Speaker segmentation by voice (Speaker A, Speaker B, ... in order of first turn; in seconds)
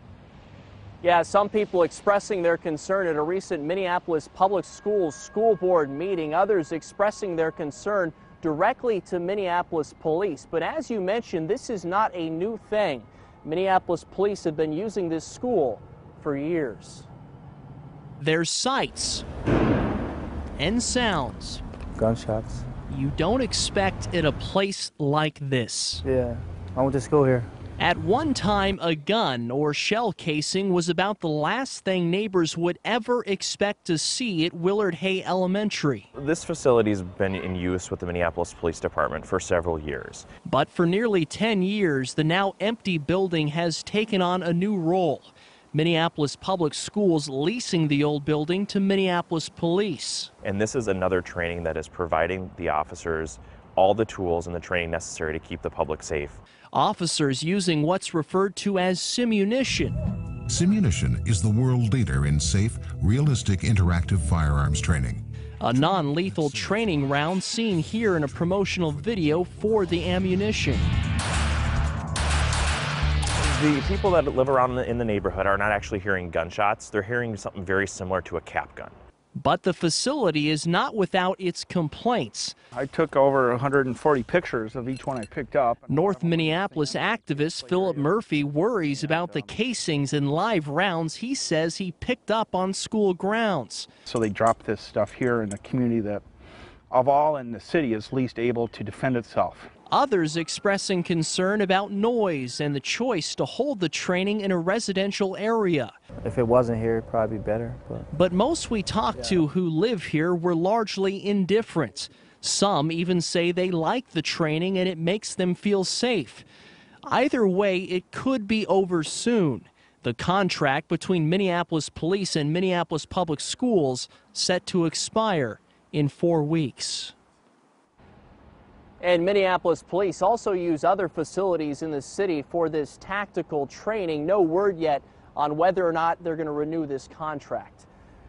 Speaker A: 1.0-13.1, 13.6-15.8, 129.0-137.8
Speaker B: 8.2-8.5, 12.6-17.1, 18.2-19.2, 20.6-21.6, 22.9-26.0, 27.8-36.1, 40.5-50.3, 56.7-60.0, 65.6-70.9, 79.4-82.5, 85.9-93.9, 99.9-105.9, 108.1-116.5, 117.1-127.1
Speaker C: 22.0-22.6, 26.0-27.5, 106.2-108.1
Speaker D: 36.2-40.3, 50.4-56.4, 73.4-79.0
Speaker E: 60.5-70.7
Speaker F: 82.8-89.6, 94.1-96.2, 96.9-99.7